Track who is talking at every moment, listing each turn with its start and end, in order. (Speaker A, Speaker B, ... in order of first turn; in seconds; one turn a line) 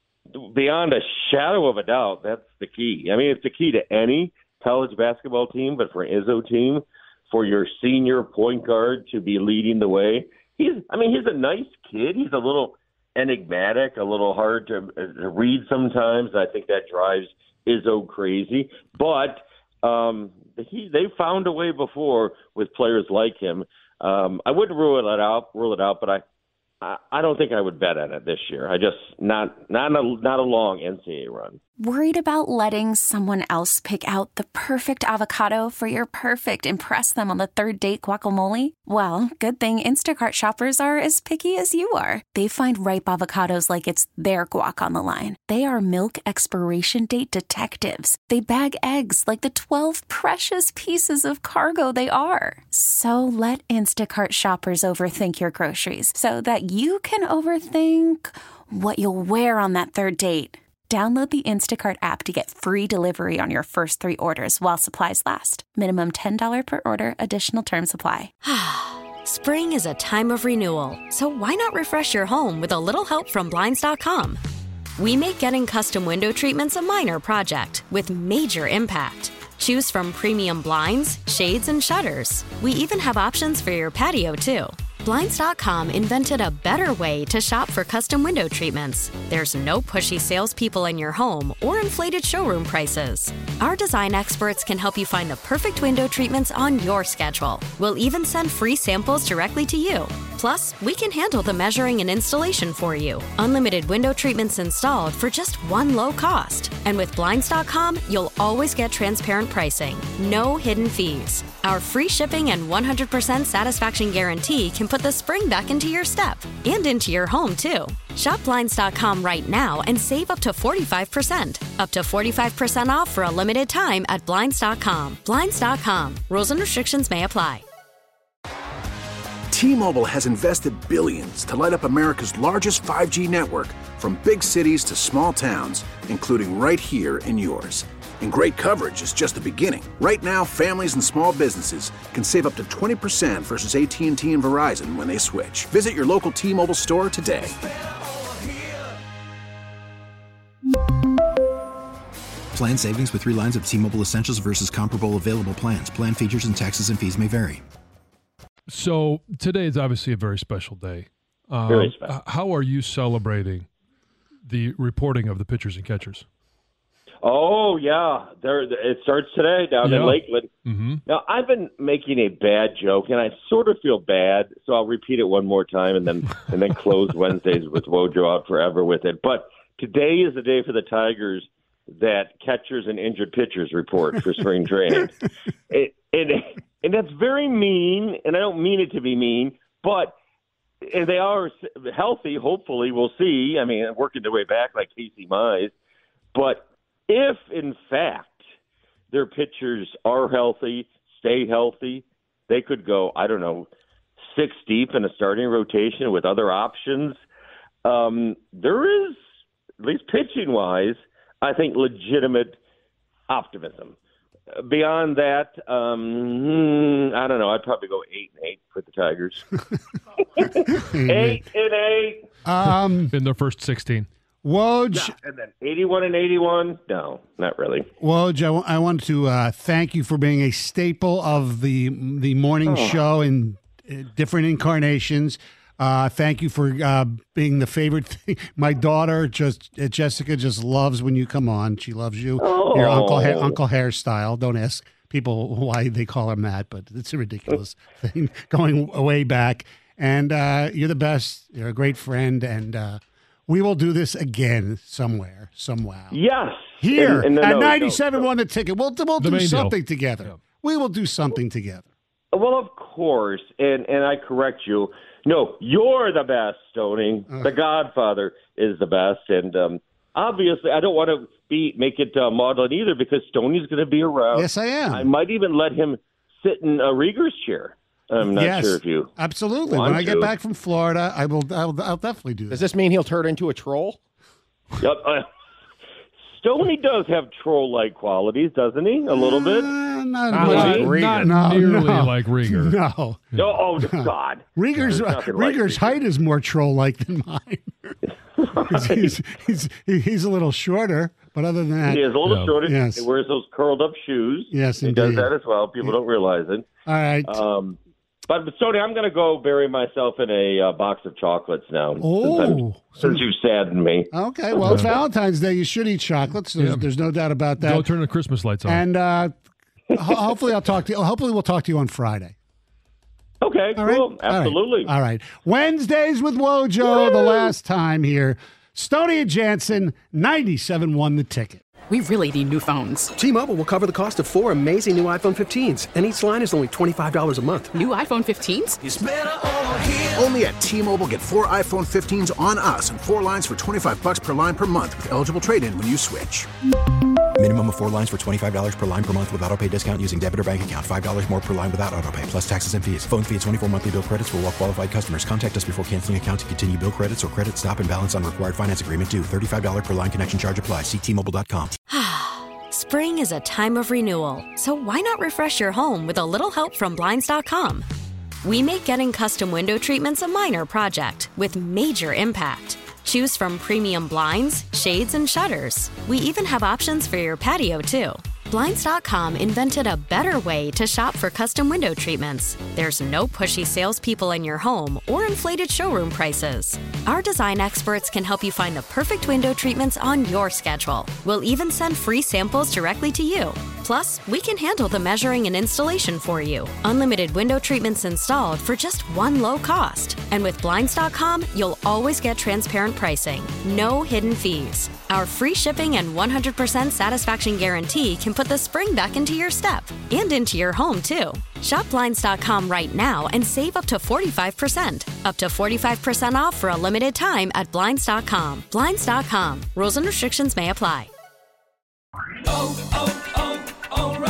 Speaker A: 0.4-26.2
Speaker A: 26.8-31.6
Speaker B: 31.8-68.3
Speaker C: 68.4-74.4
Speaker C: 75.0-127.6
Speaker D: 129.5-147.6
Speaker E: 152.5-157.6
Speaker F: 158.7-163.7
Speaker A: 161.7-162.1
Speaker F: 164.4-166.3
Speaker A: 167.2-170.5
Speaker F: 169.8-171.0
Speaker A: 171.1-190.2
Speaker A: 190.9-195.7
Speaker A: 196.3-198.4
Speaker A: 199.1-203.7
Speaker A: 204.2-207.2
Speaker A: 207.8-209.2
Speaker A: 209.8-212.6
Speaker A: 213.3-213.9
Speaker A: 214.6-219.4
Speaker A: 220.4-222.2
Speaker G: 220.7-221.4
Speaker G: 222.5-223.1
Speaker F: 223.1-224.1
Speaker G: 224.4-225.2
Speaker A: 224.9-227.9
Speaker G: 228.0-256.2
Speaker A: 232.7-233.0
Speaker A: 242.4-243.6
Speaker A: 256.1-258.2
Speaker G: 256.8-261.9
Speaker F: 259.2-259.8
Speaker A: 262.3-279.1
Speaker G: 274.3-275.1
Speaker G: 278.3-282.6
Speaker A: 279.6-280.3
Speaker H: 282.5-284.0
Speaker A: 284.8-285.2
Speaker A: 286.3-289.7
Speaker G: 289.1-297.9
Speaker H: 290.3-291.3
Speaker F: 290.4-292.8
Speaker A: 293.4-296.0
Speaker A: 298.4-299.1
Speaker G: 298.7-303.1
Speaker A: 301.8-306.7
Speaker F: 302.3-302.6
Speaker G: 304.5-305.3
Speaker G: 306.9-307.4
Speaker A: 307.3-314.1
Speaker G: 312.0-313.2
Speaker G: 314.1-317.9
Speaker F: 314.6-314.9
Speaker F: 316.6-316.9
Speaker F: 317.6-318.8
Speaker G: 318.6-319.3
Speaker G: 319.9-322.4
Speaker A: 323.4-324.9
Speaker G: 323.8-331.6
Speaker A: 327.0-327.5
Speaker I: 331.9-333.1
Speaker J: 333.2-337.7
Speaker I: 337.8-338.8
Speaker D: 338.8-346.5
Speaker E: 347.4-361.8
Speaker C: 361.9-367.9
Speaker C: 368.4-421.1